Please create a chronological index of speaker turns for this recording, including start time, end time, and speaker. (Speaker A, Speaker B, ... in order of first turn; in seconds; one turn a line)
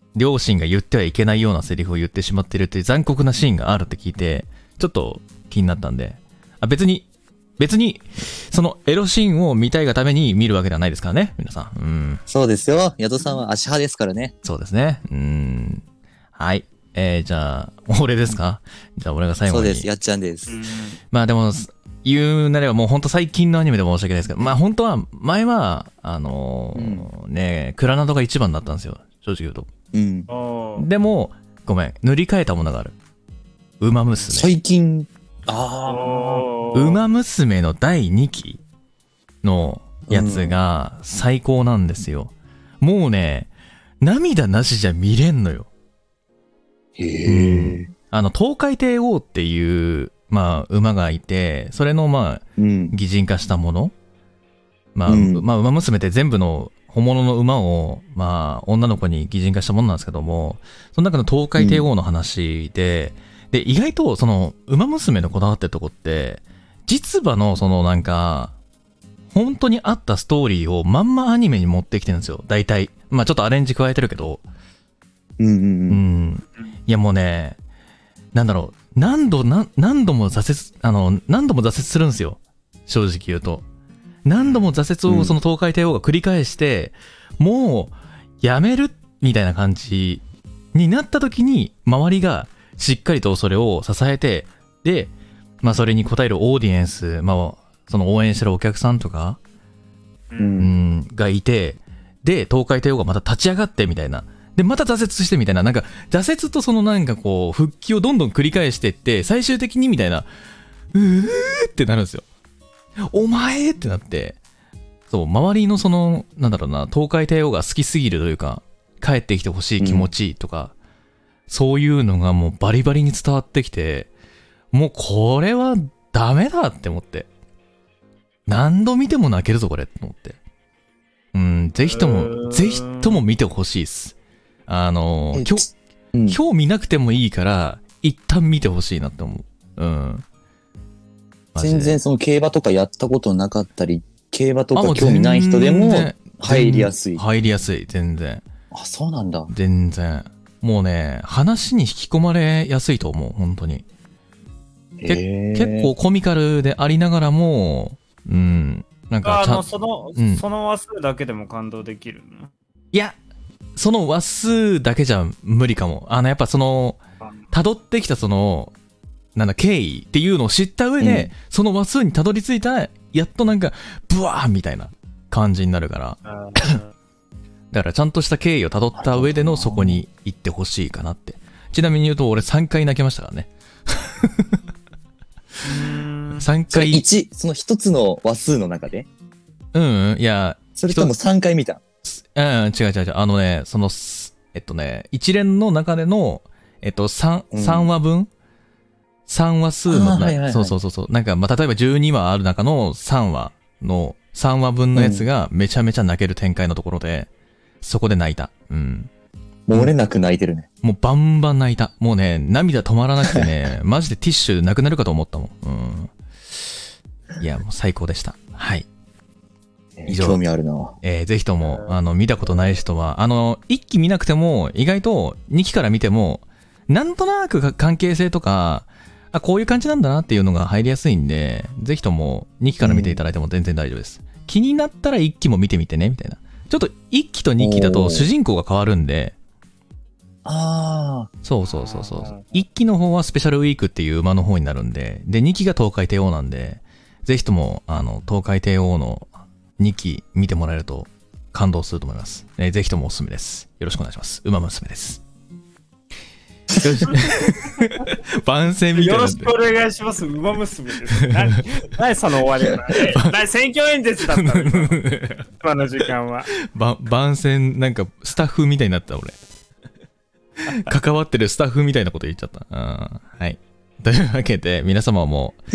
Speaker A: 0.1-7.1
Speaker A: 7.6-12.2
Speaker B: 12.3-14.3
Speaker A: 14.4-15.8
Speaker A: 16.4-19.9
Speaker B: 19.5-20.6
Speaker C: 20.5-21.0
Speaker A: 21.1-29.7
Speaker B: 26.8-27.1
Speaker B: 29.9-30.3
Speaker C: 30.3-30.9
Speaker A: 30.8-33.0
Speaker A: 33.8-34.5
Speaker B: 34.3-36.5
Speaker C: 35.9-37.0
Speaker A: 36.7-38.6
Speaker A: 39.4-43.5
Speaker B: 40.1-40.6
Speaker A: 44.0-45.7
Speaker B: 47.0-47.9
Speaker A: 47.2-53.9
Speaker B: 52.6-53.0
Speaker A: 55.0-68.5
Speaker B: 55.1-55.5
Speaker B: 61.6-61.9
Speaker A: 69.3-74.4
Speaker B: 75.4-76.0
Speaker A: 75.9-77.6
Speaker A: 78.3-83.7
Speaker A: 84.2-90.2
Speaker C: 84.4-84.7
Speaker B: 85.1-85.3
Speaker A: 90.7-99.4
Speaker C: 100.3-100.6
Speaker B: 100.4-100.8
Speaker A: 100.6-110.3
Speaker A: 110.9-112.2
Speaker A: 113.0-114.4
Speaker A: 115.1-120.7
Speaker B: 119.8-120.1
Speaker A: 121.5-124.1
Speaker A: 124.7-127.3
Speaker A: 128.5-130.4
Speaker A: 131.3-134.2
Speaker C: 131.8-133.2
Speaker A: 134.7-135.7
Speaker B: 135.3-135.6
Speaker B: 136.1-136.4
Speaker A: 136.3-140.2
Speaker A: 141.5-142.0
Speaker B: 141.6-147.2
Speaker A: 144.8-148.4
Speaker B: 148.7-149.5
Speaker A: 149.5-153.8
Speaker B: 155.0-155.9
Speaker A: 155.1-159.6
Speaker C: 159.2-162.5
Speaker A: 160.2-160.4
Speaker A: 163.8-167.0
Speaker A: 167.5-168.7
Speaker A: 169.3-176.8
Speaker B: 171.0-171.3
Speaker C: 176.3-176.9
Speaker A: 177.7-184.6
Speaker B: 178.9-180.0
Speaker C: 185.6-186.4
Speaker A: 185.9-187.0
Speaker B: 186.7-189.1
Speaker A: 189.7-191.1
Speaker B: 190.8-191.8
Speaker A: 192.1-198.3
Speaker B: 197.5-197.9
Speaker A: 199.3-207.3
Speaker B: 199.9-200.8
Speaker B: 204.9-205.3
Speaker A: 207.8-209.1
Speaker B: 209.7-210.7
Speaker A: 210.8-216.1
Speaker A: 217.4-218.9
Speaker B: 220.0-221.0
Speaker A: 220.1-220.4
Speaker A: 221.0-239.3
Speaker C: 221.6-221.9
Speaker B: 232.8-233.2
Speaker B: 237.6-238.3
Speaker B: 240.4-241.3
Speaker A: 241.4-255.2
Speaker C: 241.6-242.5
Speaker A: 256.7-259.6
Speaker B: 256.8-257.1
Speaker C: 257.1-258.1
Speaker C: 258.9-265.0
Speaker A: 264.3-265.5
Speaker C: 265.6-266.5
Speaker A: 266.7-269.4
Speaker A: 270.6-275.6